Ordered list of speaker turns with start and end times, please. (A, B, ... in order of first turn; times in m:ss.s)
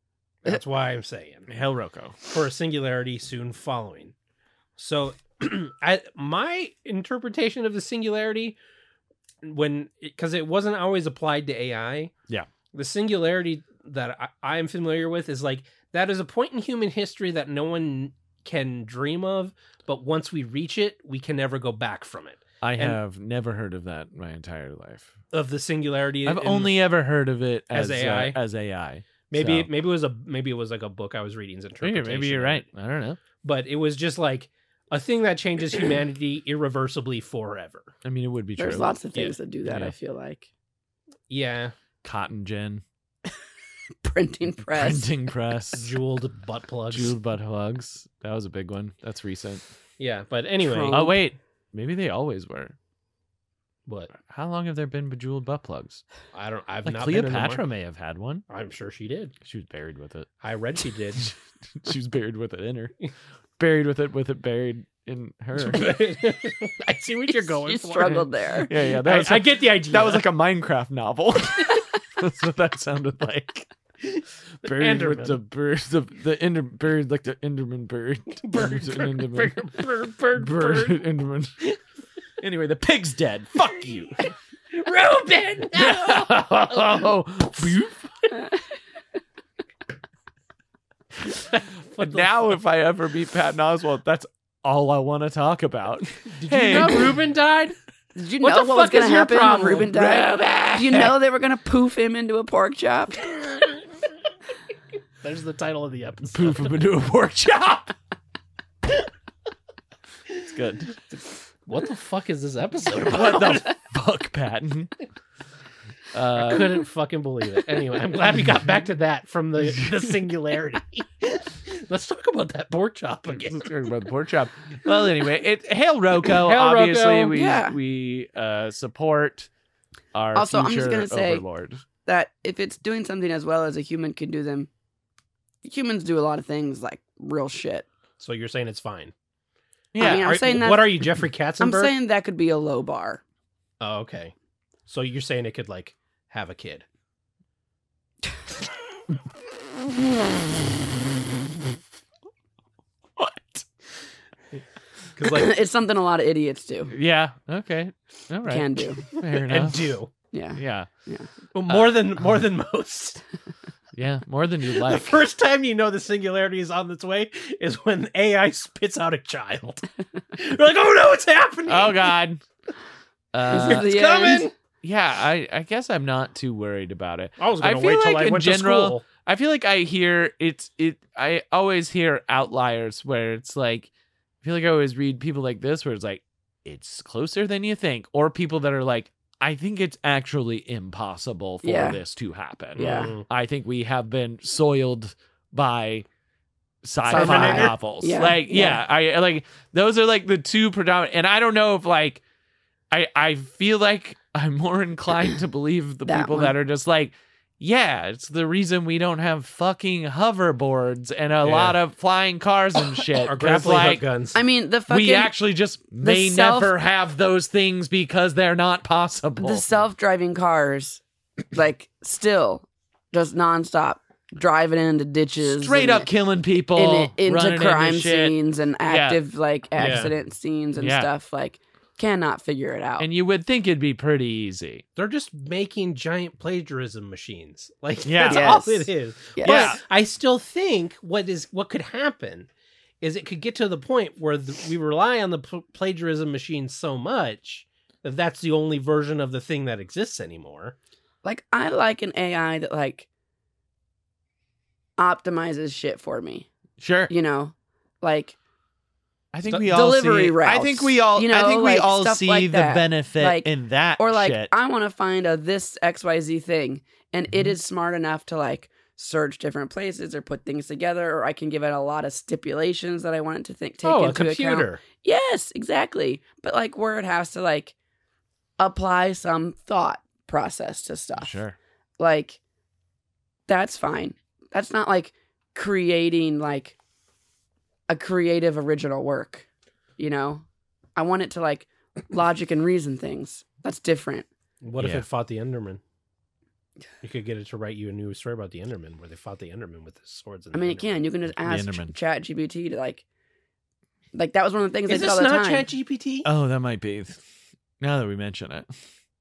0:00.4-0:01.5 A
0:01.5-0:02.2 B
0:02.2-0:04.1 A
0:04.8-0:08.6 A
0:09.4-0:12.1 A
0:12.7-0:23.0 A
0:22.6-0:25.1 B
0:25.3-0:26.8 A
0:26.2-0:29.7 B
0:27.7-0:28.4 A
0:29.3-0:32.7 A
0:31.8-0:33.2 B
0:33.4-0:37.9 A
0:38.0-0:39.0 B
0:38.6-0:40.4 C
0:39.6-0:39.9 B
0:41.3-0:41.7 A
0:42.0-0:42.8 B
0:44.0-0:45.1 C
0:44.7-0:45.9 B
0:45.7-0:47.1 A
0:46.9-0:49.6 B
0:50.0-0:51.0 A
0:50.6-0:51.2 C
0:50.9-0:52.8 B
0:53.9-0:54.1 A
0:54.2-0:56.0 B
0:56.3-0:57.6 A
0:56.8-0:58.4 B
0:58.5-0:59.3 A
0:59.4-1:00.3 B
1:00.4-1:01.3 A
1:01.7-1:02.9 B
1:03.6-1:05.9 B
1:05.6-1:08.3 A
1:07.6-1:08.7 C
1:08.6-1:13.7 B
1:09.0-1:10.3 A
1:14.6-1:19.7 B
1:14.6-1:15.4 A
1:18.4-1:21.0 A
1:20.3-1:21.6 B
1:22.4-1:24.3 B
1:24.7-1:26.6 A
1:25.7-1:28.4 B
1:31.5-1:32.3 A
1:32.0-1:37.2 B
1:36.3-1:37.8 A
1:38.2-1:43.3 C
1:38.4-1:39.9 A
1:39.9-1:41.1 B
1:45.2-1:46.7 A
1:46.3-1:47.9 B
1:50.4-1:51.0 B
1:51.6-1:53.7 A
1:53.0-1:54.9 B
1:56.1-1:56.8 B
1:56.3-2:03.7 A
2:03.5-2:09.5 B
2:06.3-2:07.4 A
2:07.3-2:07.8 C
2:10.1-2:11.8 B
2:10.3-2:11.4 C
2:12.0-2:14.7 C
2:15.6-2:17.8 C
2:18.2-2:19.1 A
2:19.9-2:20.3 B
2:20.0-2:23.2 C
2:20.0-2:21.9 A
2:23.8-2:24.3 A
2:24.9-2:26.8 A
2:33.2-2:33.6 B
2:35.2-2:35.6 A
2:35.2-2:36.9 C
2:36.9-2:39.9 B
2:38.5-2:39.0 C
2:39.1-2:40.1 A
2:40.3-2:41.3 C
2:40.6-2:40.9 B
2:41.5-2:43.2 A
2:41.7-2:42.1 B
2:43.9-2:45.2 B
2:44.7-2:52.1 A
2:51.7-2:52.4 B
2:53.3-2:53.9 B
2:53.5-2:54.5 C
2:53.5-2:54.5 A
2:54.8-3:03.9 B
2:57.4-2:59.0 A
3:04.4-3:16.1 B
3:11.6-3:12.0 C
3:12.8-3:13.2 A
3:12.8-3:13.1 C
3:16.8-3:22.2 B
3:17.1-3:18.8 C
3:17.1-3:17.7 A
3:22.9-3:34.0 B
3:26.0-3:26.5 C
3:31.4-3:31.8 A
3:33.2-3:34.4 A
3:34.3-3:35.3 C
3:34.9-3:39.6 B
3:36.0-3:36.7 C
3:39.4-3:46.1 C
3:45.4-3:49.2 B
3:46.7-3:53.1 C
3:49.8-3:50.1 A
3:50.8-3:51.1 B
3:53.0-3:54.8 B
3:55.0-4:02.5 A
3:58.0-3:58.6 B
3:58.2-3:59.8 C
3:59.4-3:59.8 B
4:03.0-4:10.7 A
4:11.2-4:13.1 C
4:15.0-4:16.5 C
4:16.8-4:17.1 B
4:17.1-4:18.4 C
4:19.3-4:24.5 B
4:19.5-4:37.7 C
4:33.8-4:34.8 A
4:38.6-4:41.3 C
4:41.2-4:41.6 B
4:42.0-4:42.4 C
4:43.5-4:46.8 C
4:47.9-4:49.4 C
4:50.0-4:50.4 C
4:51.0-4:54.3 C
4:54.6-4:55.8 A
4:54.8-4:55.0 B
4:57.0-5:01.0 A
5:00.5-5:03.0 C
5:01.4-5:01.9 B
5:04.1-5:05.7 C
5:04.9-5:06.3 A
5:06.2-5:07.2 B
5:07.8-5:08.7 B